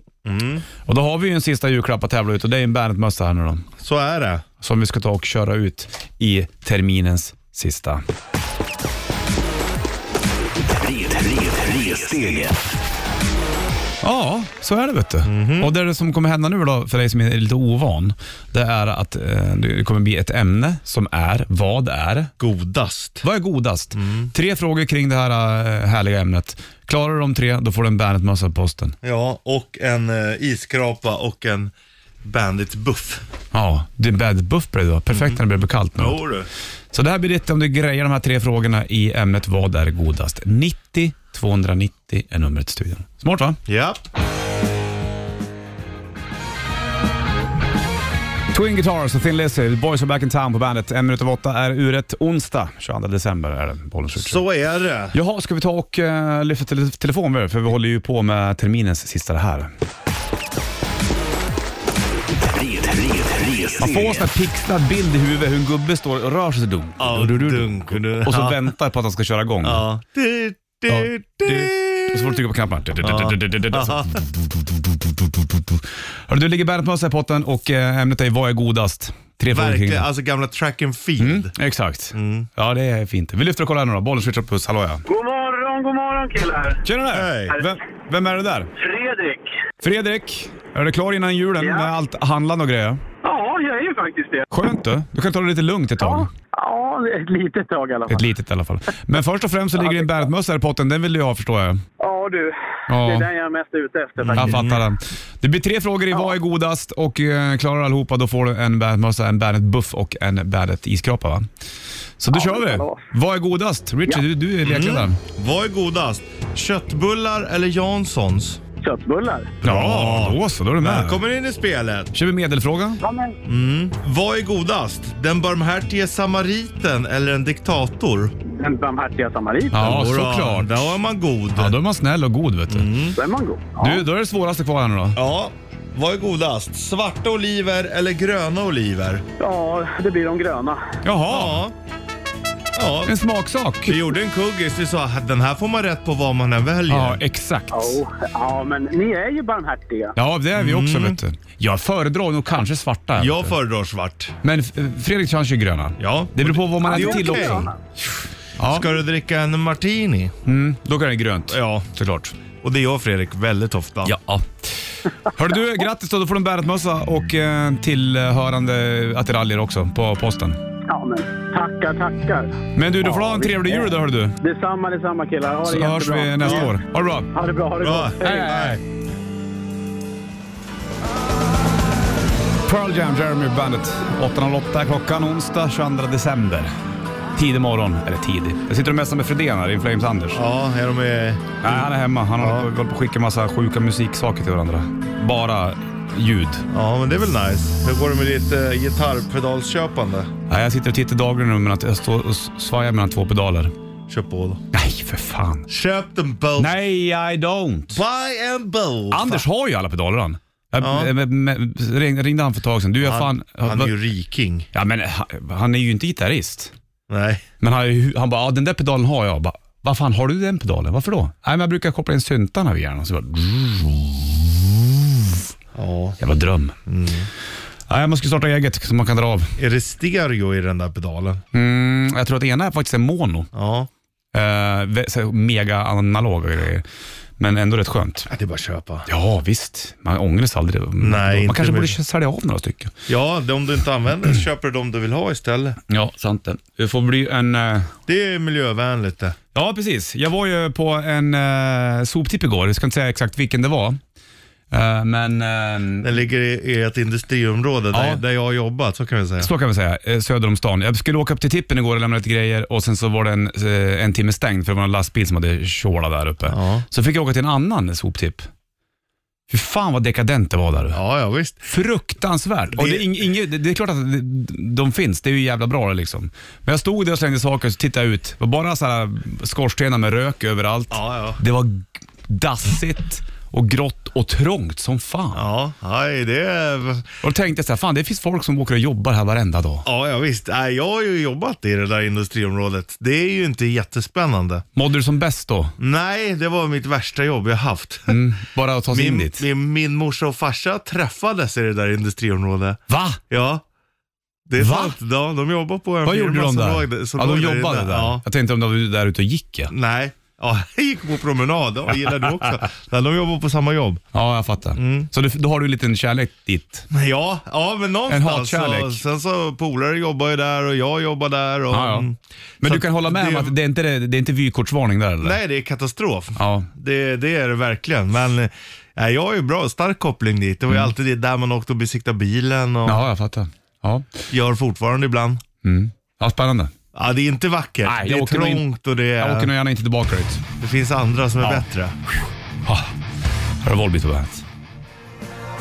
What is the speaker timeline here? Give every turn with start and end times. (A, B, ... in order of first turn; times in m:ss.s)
0:00.2-0:00.7 A
0:00.9-0:03.7 B
0:03.8-0:04.4 A
0:04.6-0:08.0 B
0:10.8-0:12.5 C
0:14.0-0:22.3 B
0:15.2-0:15.7 A
0:22.4-0:23.2 A
0:23.2-0:29.0 B
0:23.9-0:24.3 A
0:29.0-0:31.7 A
0:32.2-0:33.2 A
0:33.5-0:36.2 B
0:35.1-0:35.4 A
0:36.0-0:36.5 A
0:36.9-0:43.6 B
0:43.7-0:44.0 A
0:48.5-0:54.4 B
0:54.2-0:55.2 A
0:55.1-0:59.7 B
1:02.5-1:03.7 C
1:03.8-1:09.8 B
1:07.0-1:08.7 A
1:09.6-1:12.4 A
1:10.9-1:20.1 B
1:13.0-1:14.2 A
1:19.5-1:21.5 A
1:21.2-1:25.0 B
1:22.1-1:22.5 A
1:25.1-1:26.8 D
1:26.8-1:28.7 B
1:27.1-1:27.6 A
1:28.8-1:29.4 D
1:29.8-1:33.0 B
1:31.6-1:31.9 D
1:33.2-1:34.5 D
1:34.5-1:36.3 B
1:36.0-1:38.3 D
1:38.1-1:41.8 B
1:39.8-1:40.3 D
1:42.0-1:44.6 D
1:42.9-1:43.3 B
1:44.2-1:44.8 A
1:44.4-1:51.5 B
1:52.2-1:55.2 B
1:52.3-1:53.0 D
1:54.6-1:58.6 A
1:58.8-1:59.6 D
1:59.6-2:01.2 B
1:59.6-2:02.1 A
2:02.1-2:03.0 B
2:03.0-2:03.4 D
2:03.5-2:08.3 A
2:08.5-2:09.9 D
2:09.7-2:11.0 B
2:09.7-2:11.8 A
2:11.6-2:12.9 B
2:12.7-2:13.2 A
2:13.2-2:14.0 D
2:13.8-2:15.2 B
2:15.2-2:19.2 A
2:19.4-2:20.9 D
2:21.0-2:21.6 B
2:21.3-2:21.8 A
2:22.8-2:23.1 A
2:23.1-2:24.0 B
2:23.9-2:27.2 A
2:26.9-2:28.0 B
2:27.7-2:30.1 D
2:30.2-2:33.6 B
2:30.5-2:31.2 A
2:33.2-2:34.3 A
2:34.4-2:37.7 B
2:36.0-2:37.7 A
2:36.9-2:37.8 D
2:38.6-2:39.0 B
2:38.6-2:40.3 A
2:40.5-2:42.4 B
2:41.5-2:41.9 A
2:42.6-2:44.2 A
2:44.0-2:50.6 B
2:50.9-2:53.9 D
2:52.7-2:54.4 B
2:54.4-2:56.8 D
2:55.6-2:57.3 B
2:57.3-2:58.7 D
2:57.8-2:58.8 A
2:58.2-2:58.8 B
3:02.6-3:06.7 B
3:07.4-3:10.4 B
3:10.3-3:11.9 A
3:11.6-3:16.7 B
3:12.4-3:12.7 A
3:16.7-3:20.3 A
3:20.5-3:23.7 B
3:24.1-3:24.6 A
3:24.7-3:25.7 B
3:25.7-3:26.8 A
3:26.6-3:28.0 B
3:27.9-3:29.4 A
3:29.1-3:33.9 B
3:30.8-3:31.1 A
3:33.0-3:34.7 A
3:34.7-3:36.7 B
3:37.1-3:37.4 A
3:37.6-3:45.4 B
3:45.8-3:46.2 A
3:46.2-3:46.8 B
3:46.9-3:47.3 A
3:47.9-3:49.6 B
3:49.6-3:51.4 A
3:51.5-3:53.5 B
3:53.5-3:53.9 A
3:54.3-3:56.8 B
3:57.4-3:58.3 B
3:58.3-3:59.1 A
3:59.1-4:02.9 B
4:01.0-4:02.0 A
4:03.1-4:05.8 A
4:05.9-4:07.9 B
4:08.1-4:09.4 A
4:09.5-4:14.0 B
4:14.7-4:16.2 B
4:16.0-4:19.5 A
4:17.9-4:18.2 B
4:19.4-4:28.5 B
4:26.5-4:26.8 A
4:29.5-4:31.0 B
4:30.9-4:31.7 A
4:31.6-4:45.4 B
4:32.7-4:33.1 A
4:40.9-4:41.4 A
4:45.3-4:47.1 A
4:47.2-4:49.9 B
4:49.8-4:54.6 A
4:54.8-4:55.8 B
4:55.8-4:58.2 A
4:58.1-4:59.4 B
4:58.9-5:03.6 A
5:02.9-5:03.2 B
5:04.5-5:08.2 A
5:04.6-5:05.0 B
5:06.0-5:09.7 B
5:09.7-5:14.0 A
5:14.1-5:16.9 B
5:14.8-5:15.1 A
5:16.9-5:23.5 A
5:18.1-5:19.0 B
5:21.7-5:22.1 B
5:22.6-5:25.4 B
5:25.2-5:33.0 A
5:26.4-5:26.7 B
5:32.8-5:34.1 B
5:34.3-5:35.4 A
5:35.6-5:36.7 B
5:36.9-5:39.5 A
5:37.8-5:38.7 B
5:39.2-5:40.4 B
5:40.6-5:42.0 A
5:42.6-5:42.9 B
5:43.6-5:44.4 B